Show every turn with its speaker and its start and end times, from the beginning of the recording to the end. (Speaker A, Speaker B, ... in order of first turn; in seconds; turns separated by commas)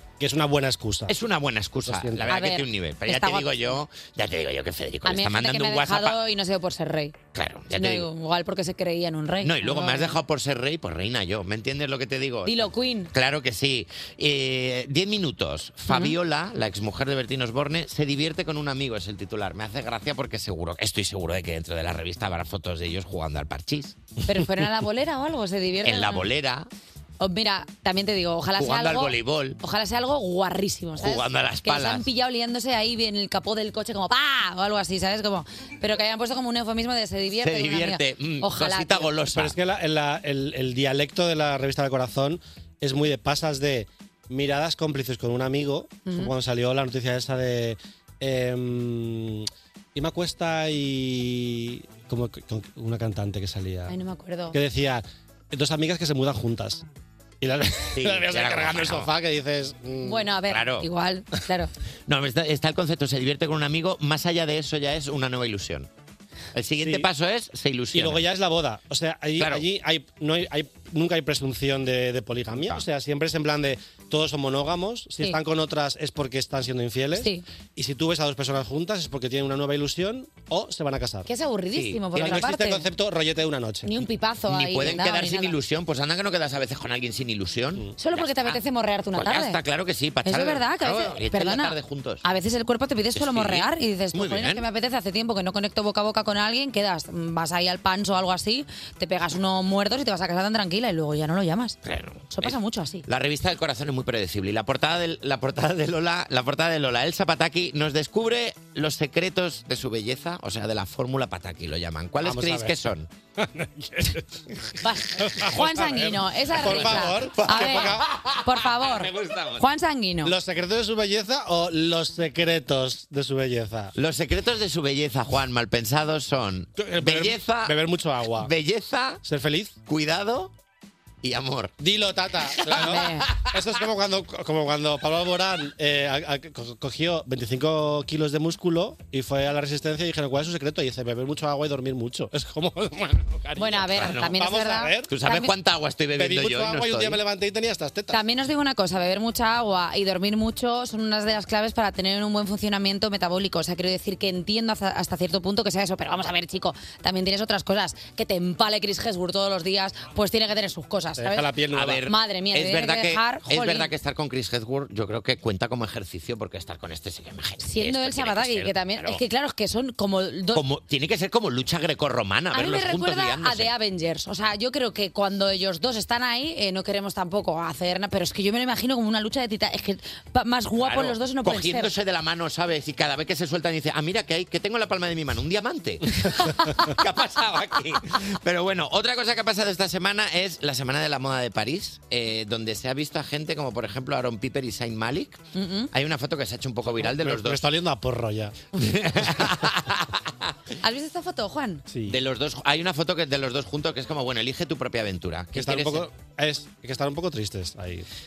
Speaker A: 0.2-1.1, Speaker B: 1.1-6.2, Speaker A: 1.8-2.3, Speaker C: 2.3-3.8, Speaker C: 5.0-7.2, Speaker B: 7.3-8.1, Speaker C: 7.7-10.2, Speaker B: 9.4-24.0, Speaker C: 12.4-13.1, Speaker C: 15.9-16.2, Speaker C: 24.3-26.3, Speaker B: 25.8-26.7, Speaker C: 27.2-39.1, Speaker B: 28.6-29.6, Speaker B: 31.0-32.1, Speaker B: 37.4-39.6, Speaker A: 39.3-54.0, Speaker C: 46.1-46.3, Speaker C: 53.9-54.6, Speaker A: 54.5-56.8, Speaker A: 57.4-60.3, Speaker B: 57.9-59.1, Speaker C: 60.0-61.7, Speaker B: 60.5-60.9, Speaker B: 62.1-65.9, Speaker B: 66.5-68.3, Speaker A: 66.8-67.1, Speaker A: 67.9-81.3, Speaker B: 69.4-69.7, Speaker B: 72.5-72.8, Speaker C: 77.2-77.4, Speaker C: 81.3-82.9, Speaker B: 81.7-82.4, Speaker A: 82.2-84.0, Speaker C: 83.8-85.5, Speaker B: 84.5-88.6, Speaker C: 88.0-89.6, Speaker B: 89.1-92.2, Speaker C: 90.2-101.8, Speaker B: 93.1-94.7, Speaker B: 101.8-113.1, Speaker C: 102.3-103.0, Speaker A: 112.2-112.7, Speaker A: 113.4-114.3, Speaker C: 114.8-120.4, Speaker A: 115.2-118.0, Speaker B: 116.6-119.6, Speaker A: 120.2-123.9, Speaker B: 124.0-127.8, Speaker A: 126.8-128.5, Speaker B: 128.4-129.2, Speaker A: 129.2-129.8, Speaker B: 129.9-130.5, Speaker B: 131.2-131.8, Speaker A: 131.8-145.1, Speaker B: 132.5-133.8, Speaker C: 132.7-133.3, Speaker C: 143.6-145.5, Speaker B: 143.8-144.4, Speaker B: 145.1-147.2, Speaker A: 146.2-148.2, Speaker C: 148.1-163.9, Speaker A: 161.2-162.0, Speaker B: 161.7-169.2, Speaker C: 167.6-170.6, Speaker B: 170.5-173.7, Speaker C: 172.5-181.9, Speaker B: 180.8-195.4, Speaker C: 186.5-186.7, Speaker C: 195.6-195.9, Speaker B: 195.9-197.6, Speaker A: 197.0-198.6, Speaker B: 198.7-200.5, Speaker A: 199.2-199.7, Speaker C: 200.8-201.8, Speaker A: 201.9-202.2, Speaker B: 202.1-206.1, Speaker A: 205.5-208.1